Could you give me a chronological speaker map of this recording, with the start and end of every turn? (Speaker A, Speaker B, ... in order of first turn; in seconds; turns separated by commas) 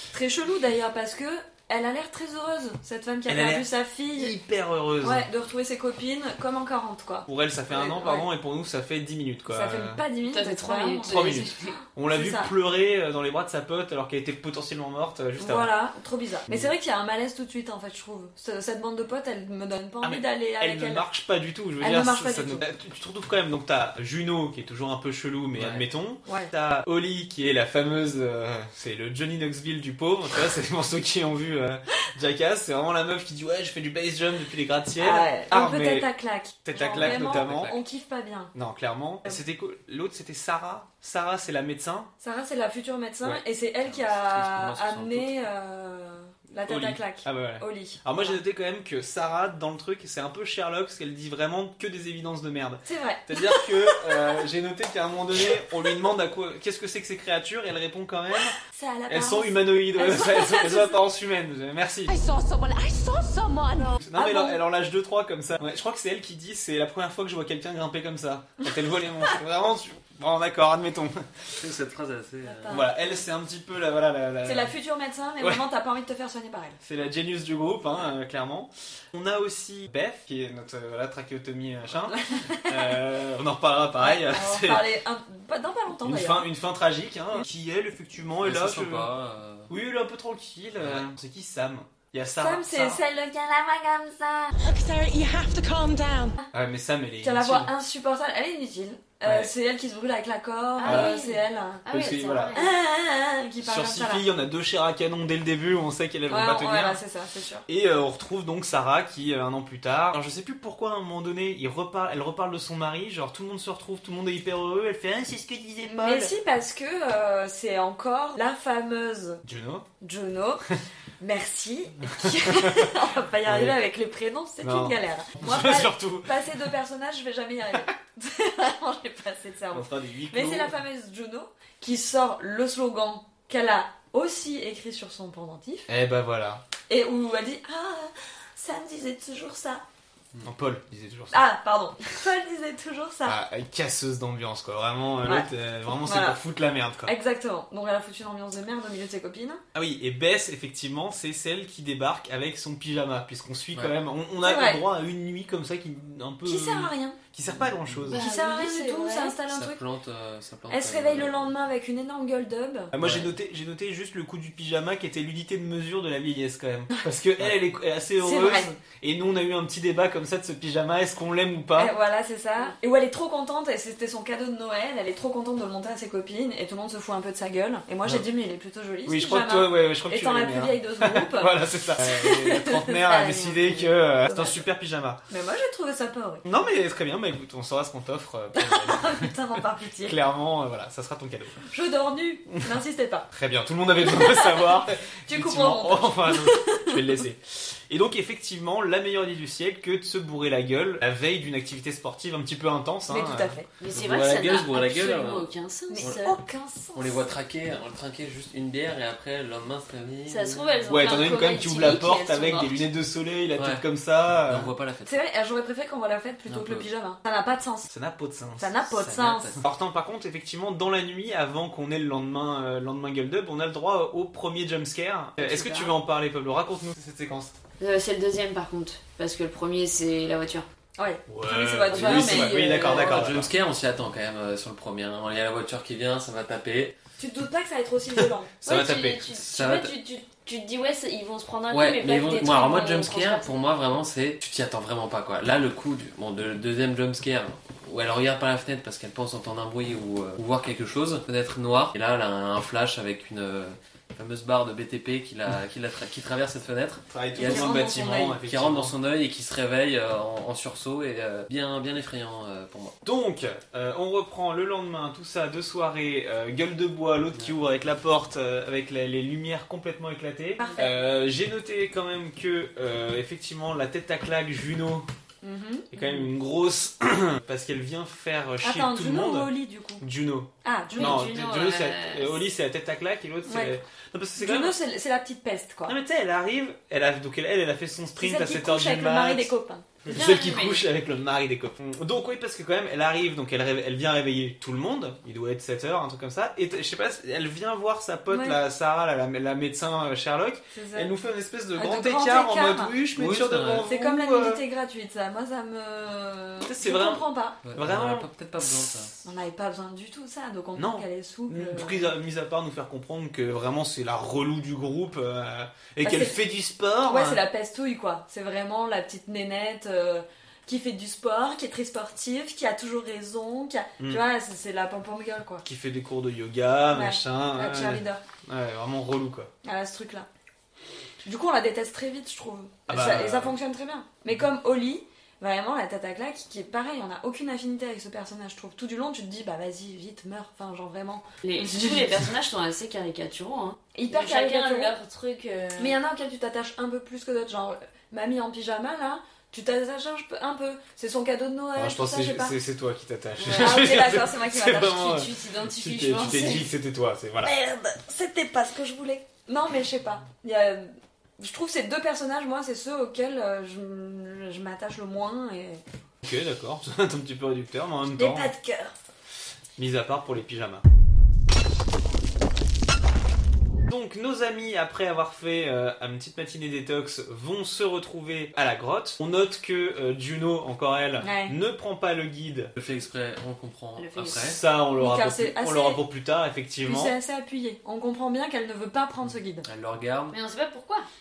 Speaker A: 0.1-4.3, Speaker B: 3.3-5.3, Speaker A: 5.0-8.3, Speaker B: 7.3-10.0, Speaker A: 9.5-11.4, Speaker C: 10.3-11.8, Speaker B: 11.1-15.7, Speaker A: 12.1-12.5, Speaker A: 15.4-21.0, Speaker B: 20.0-36.1, Speaker A: 21.8-22.6, Speaker D: 25.6-25.9, Speaker A: 26.2-26.5, Speaker A: 35.0-38.5, Speaker B: 36.6-37.8, Speaker D: 36.9-37.7, Speaker B: 38.5-42.1, Speaker A: 42.2-48.4, Speaker D: 43.8-45.3, Speaker B: 46.6-58.6, Speaker A: 52.8-54.2, Speaker A: 58.6-61.0, Speaker B: 59.1-62.2, Speaker E: 62.1-64.0, Speaker B: 64.0-71.6, Speaker A: 64.1-64.6, Speaker D: 71.6-72.9, Speaker A: 72.4-73.2, Speaker B: 72.7-74.7, Speaker A: 74.4-76.8, Speaker B: 76.8-84.8, Speaker A: 82.1-83.0, Speaker A: 84.0-86.5, Speaker B: 86.0-89.1, Speaker D: 88.4-89.7, Speaker B: 89.7-93.0, Speaker D: 90.8-91.1, Speaker A: 92.4-94.5, Speaker E: 94.5-96.4, Speaker B: 96.5-97.7, Speaker A: 97.2-101.8, Speaker B: 99.2-99.5, Speaker C: 100.8-102.7, Speaker B: 100.8-101.2, Speaker B: 101.9-102.5, Speaker A: 102.5-104.2, Speaker B: 103.6-107.0, Speaker A: 106.3-107.6, Speaker B: 107.7-116.3, Speaker A: 115.8-119.4, Speaker B: 119.4-119.8, Speaker A: 120.0-135.9, Speaker B: 122.1-123.8, Speaker B: 124.6-126.7, Speaker B: 129.7-130.8, Speaker B: 135.9-136.6, Speaker A: 136.9-139.8, Speaker B: 140.4-141.4, Speaker A: 141.3-143.4, Speaker B: 143.2-147.1, Speaker A: 145.2-145.5, Speaker A: 146.0-146.4, Speaker A: 147.1-149.6, Speaker B: 149.7-158.2, Speaker A: 154.4-154.8, Speaker A: 156.4-157.2, Speaker D: 157.5-158.0, Speaker C: 158.1-159.3, Speaker A: 158.1-159.8, Speaker D: 159.5-161.5, Speaker A: 160.7-162.9, Speaker B: 162.9-171.9, Speaker D: 163.0-163.3, Speaker A: 168.2-168.7, Speaker A: 171.8-184.6, Speaker B: 179.1-185.2, Speaker A: 185.3-186.4, Speaker B: 186.4-189.3, Speaker A: 188.6-190.2, Speaker B: 190.0-191.6, Speaker A: 191.7-193.3, Speaker B: 193.3-203.6, Speaker A: 194.0-197.0, Speaker A: 203.1-203.7, Speaker C: 203.8-206.3, Speaker D: 203.9-206.3, Speaker A: 205.9-207.2, Speaker D: 206.9-211.2, Speaker C: 210.3-212.8, Speaker B: 210.9-214.7, Speaker D: 213.6-213.8, Speaker D: 214.4-215.1, Speaker A: 215.0-217.9, Speaker D: 216.5-216.9, Speaker B: 217.9-218.7, Speaker A: 218.6-219.5, Speaker D: 218.9-219.6, Speaker B: 219.6-227.6, Speaker A: 225.5-225.8, Speaker C: 227.8-230.7, Speaker A: 231.0-232.6, Speaker B: 231.3-233.5, Speaker D: 231.9-236.9, Speaker C: 231.9-233.3, Speaker A: 237.2-238.5, Speaker B: 238.2-239.2, Speaker C: 238.6-243.6, Speaker D: 239.3-239.9, Speaker D: 241.7-257.8, Speaker B: 257.1-258.9, Speaker A: 257.4-258.4, Speaker D: 258.4-262.9, Speaker B: 263.0-275.1, Speaker A: 270.6-271.1, Speaker A: 275.4-276.3, Speaker B: 275.9-284.7, Speaker A: 278.6-280.0, Speaker A: 280.6-281.2, Speaker C: 280.9-282.4, Speaker A: 283.5-283.7, Speaker A: 284.4-285.9, Speaker B: 285.9-289.5, Speaker A: 288.2-289.9, Speaker B: 290.0-304.6, Speaker C: 290.1-290.8, Speaker A: 298.3-298.6, Speaker A: 300.7-301.1, Speaker A: 301.8-302.9, Speaker D: 303.1-303.9, Speaker A: 303.9-307.6, Speaker B: 306.6-309.1, Speaker D: 307.6-309.1, Speaker A: 309.2-312.1, Speaker B: 310.7-317.4, Speaker A: 316.0-316.4, Speaker A: 317.1-325.6, Speaker B: 325.6-329.5, Speaker A: 326.9-328.2, Speaker A: 329.6-330.3, Speaker A: 331.2-342.2, Speaker B: 332.9-333.6, Speaker C: 341.4-346.0, Speaker A: 343.9-344.9, Speaker A: 345.8-352.6, Speaker B: 351.8-357.5, Speaker C: 353.4-354.0, Speaker A: 353.5-355.3, Speaker C: 354.9-356.7, Speaker A: 357.4-365.8, Speaker B: 366.2-368.5, Speaker A: 368.2-368.9, Speaker B: 369.8-370.8, Speaker B: 373.9-382.7, Speaker A: 381.2-381.6, Speaker D: 382.8-384.6, Speaker C: 383.9-384.5, Speaker B: 384.3-387.1, Speaker A: 384.9-386.0, Speaker A: 386.8-389.6, Speaker D: 389.6-390.4, Speaker C: 390.3-391.1